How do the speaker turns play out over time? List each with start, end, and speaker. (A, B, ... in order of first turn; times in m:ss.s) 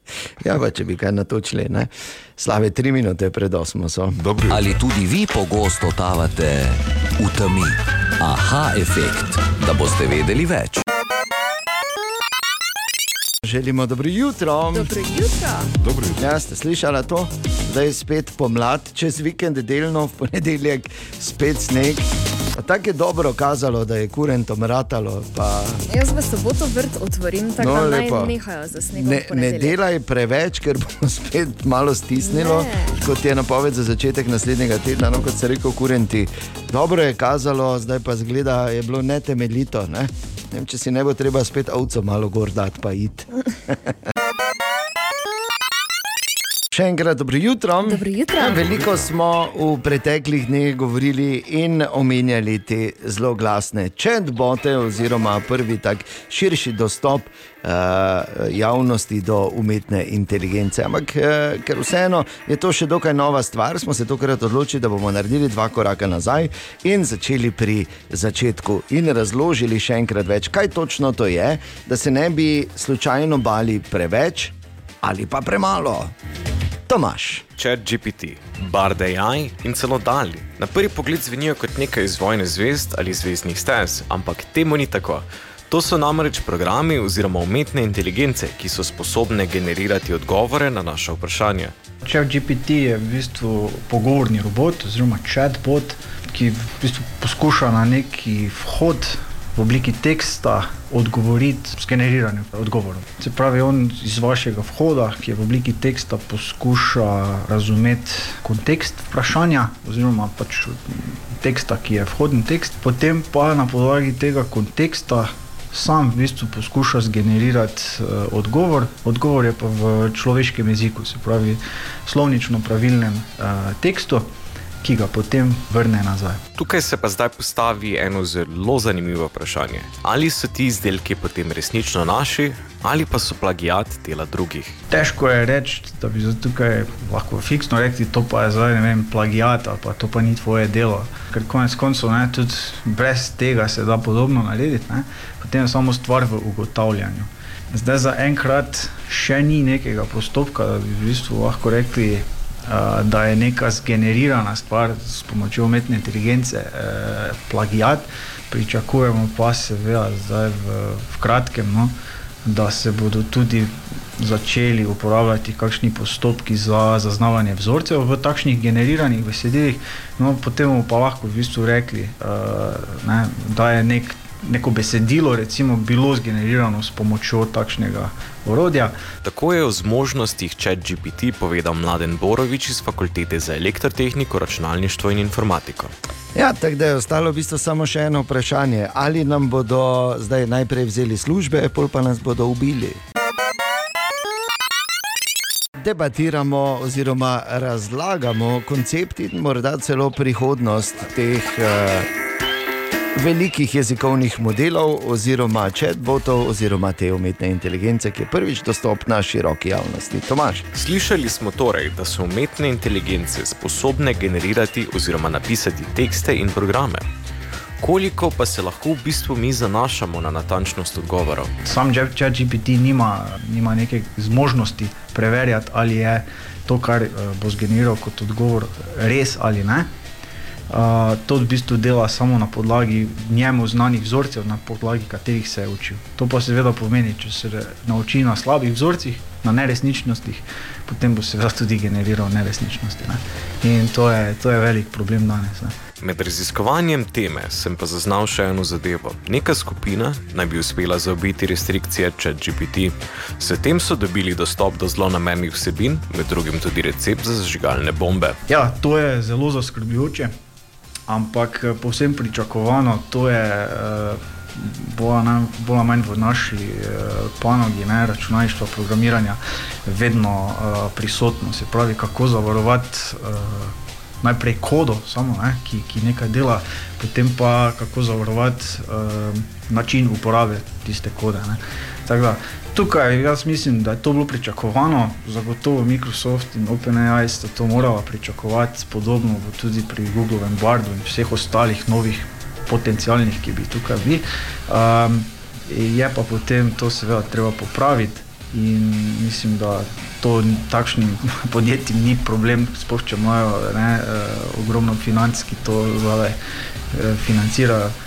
0:00.4-0:04.2 A
0:04.1-0:04.8 B
0:04.5-0:10.8 C
0:13.4-0:14.9 A
0:14.7-0:15.7 D
0:15.8-0:16.4 B
0:16.2-0:25.8 A
0:25.9-0:29.8 D
0:27.6-0:28.3 A
0:29.0-0:43.8 A
0:32.2-0:33.0 D
0:46.7-1:16.1 A
0:47.8-0:48.6 D
0:48.4-0:49.1 B
1:16.9-1:17.5 A
1:17.6-1:31.7 E
1:32.0-2:04.3 F
2:04.8-2:06.4 F
2:06.6-2:14.8 E
2:14.9-2:42.0 F
2:42.5-2:59.0 F
2:59.2-3:05.9 E
3:06.4-3:13.0 A
3:15.8-3:22.1 A
3:23.2-3:30.7 A
3:30.7-3:37.1 E
3:37.8-3:41.5 E
3:41.6-3:49.9 F
3:50.7-4:05.8 F
4:06.0-4:18.4 E
4:18.5-4:20.3 F
4:21.1-5:06.4 F
5:06.9-5:08.0 F